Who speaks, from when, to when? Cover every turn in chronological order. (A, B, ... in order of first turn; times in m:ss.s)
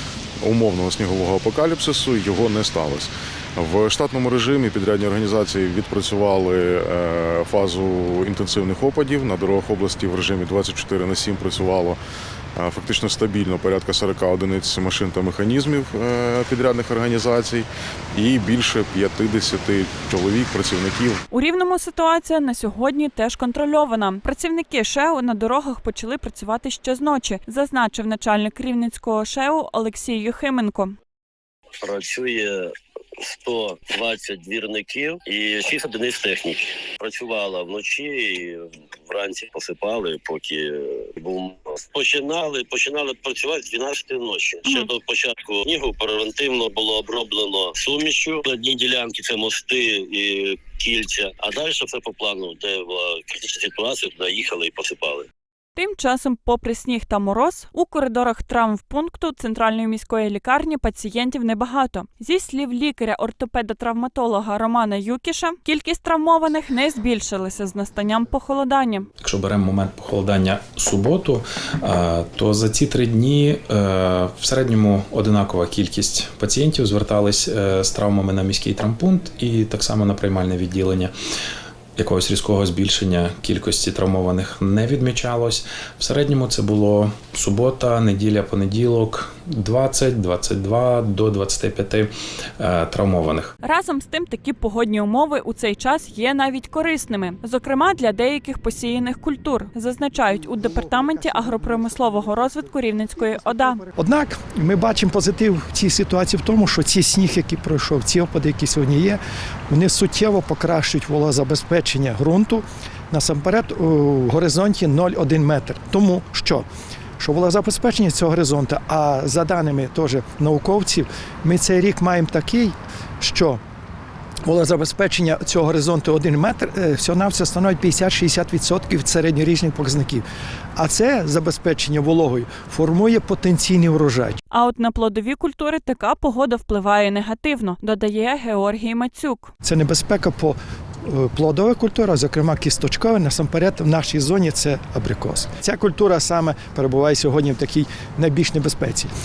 0:00.4-0:12.0 A
0:12.6-0:21.2 A
0:21.3-0:30.9 B
0:31.8-0:55.3 C
0:55.8-1:09.1 B
1:09.2-1:21.1 D
1:22.0-1:33.5 D
1:33.6-1:43.8 B
1:40.2-1:56.7 E
1:57.2-2:03.6 E
2:04.5-2:10.2 E
2:10.8-2:14.4 E
2:14.5-2:19.5 B
2:19.6-2:29.1 E